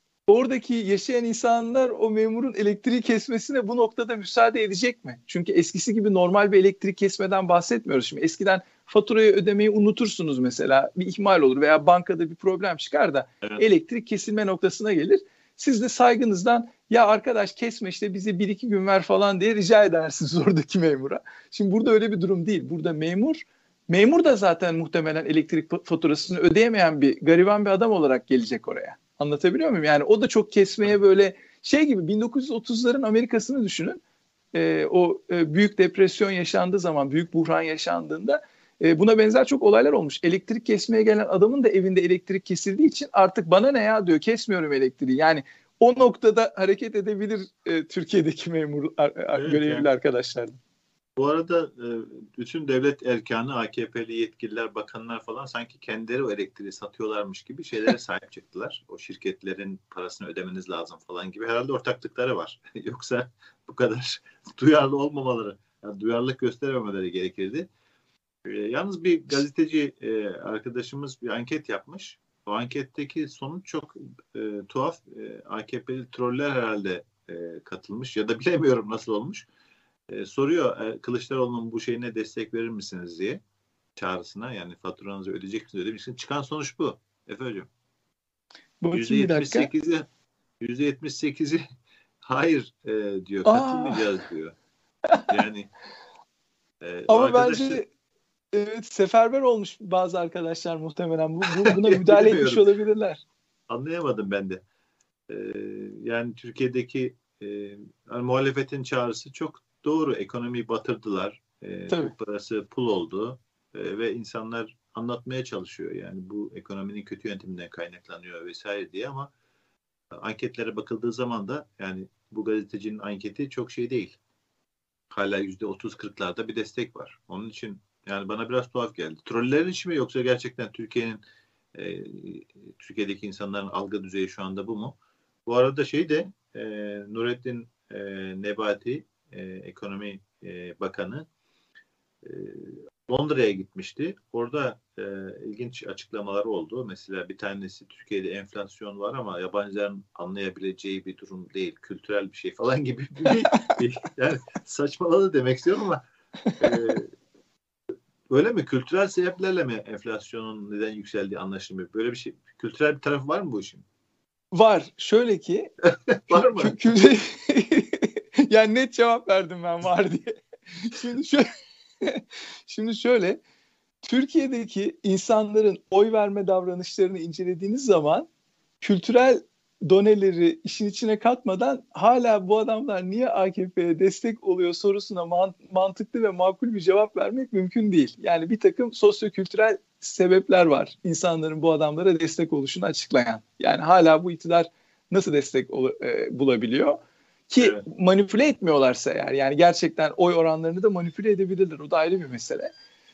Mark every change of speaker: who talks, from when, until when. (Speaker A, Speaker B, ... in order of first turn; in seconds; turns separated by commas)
Speaker A: 0.3-34.0, Speaker A: 34.5-50.6, Speaker B: 49.3-49.9, Speaker B: 51.1-67.7, Speaker B: 68.4-79.5, Speaker B: 80.1-83.4, Speaker B: 84.0-87.7, Speaker A: 88.8-89.7, Speaker B: 88.9-90.1, Speaker B: 90.6-91.6, Speaker B: 92.2-94.5, Speaker A: 93.4-94.0, Speaker B: 95.3-95.7, Speaker B: 96.8-97.8, Speaker A: 97.1-97.9, Speaker A: 98.5-103.2, Speaker B: 101.6-102.7, Speaker B: 103.7-104.6, Speaker B: 105.3-119.3, Speaker B: 120.1-124.2, Speaker B: 125.1-131.2, Speaker B: 131.7-141.2, Speaker B: 142.2-156.0, Speaker B: 156.6-157.1, Speaker B: 158.3-163.8, Speaker A: 164.5-165.7, Speaker B: 165.8-166.9, Speaker A: 166.3-171.5, Speaker A: 172.0-173.4, Speaker A: 174.0-178.3, Speaker A: 178.8-202.7, Speaker B: 197.6-197.8